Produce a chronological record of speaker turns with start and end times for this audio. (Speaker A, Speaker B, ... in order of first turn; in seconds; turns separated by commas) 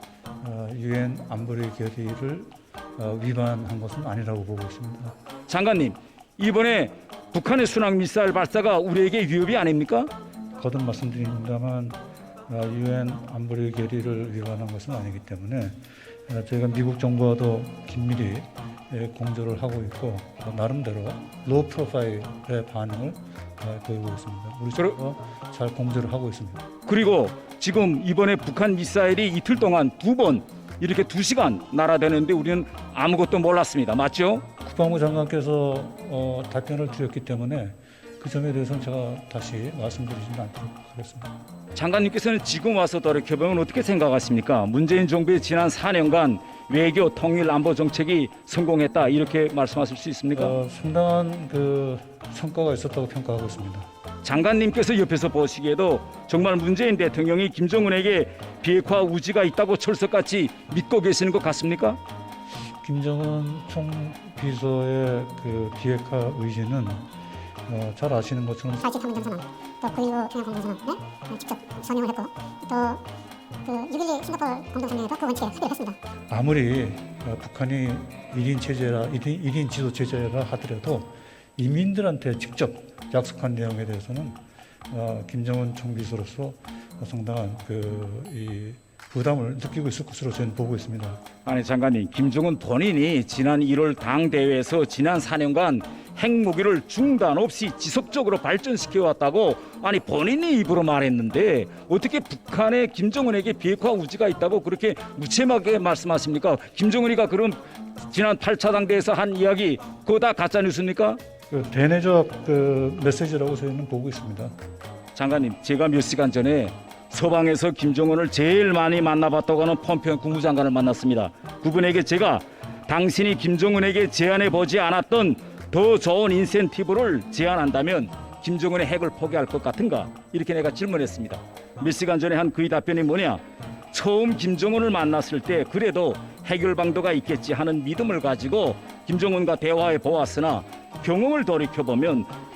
Speaker A: 0.4-5.1, Speaker B: 5.5-10.1, Speaker A: 10.6-26.7, Speaker B: 26.9-34.5, Speaker A: 34.6-41.3, Speaker B: 41.8-50.5, Speaker A: 50.3-53.9, Speaker B: 54.2-62.0, Speaker A: 62.8-67.1, Speaker A: 67.7-69.0, Speaker C: 68.8-73.0, Speaker C: 73.7-76.0, Speaker A: 76.3-84.4, Speaker A: 84.9-91.2, Speaker B: 91.5-111.2, Speaker A: 111.5-114.5, Speaker B: 115.2-142.3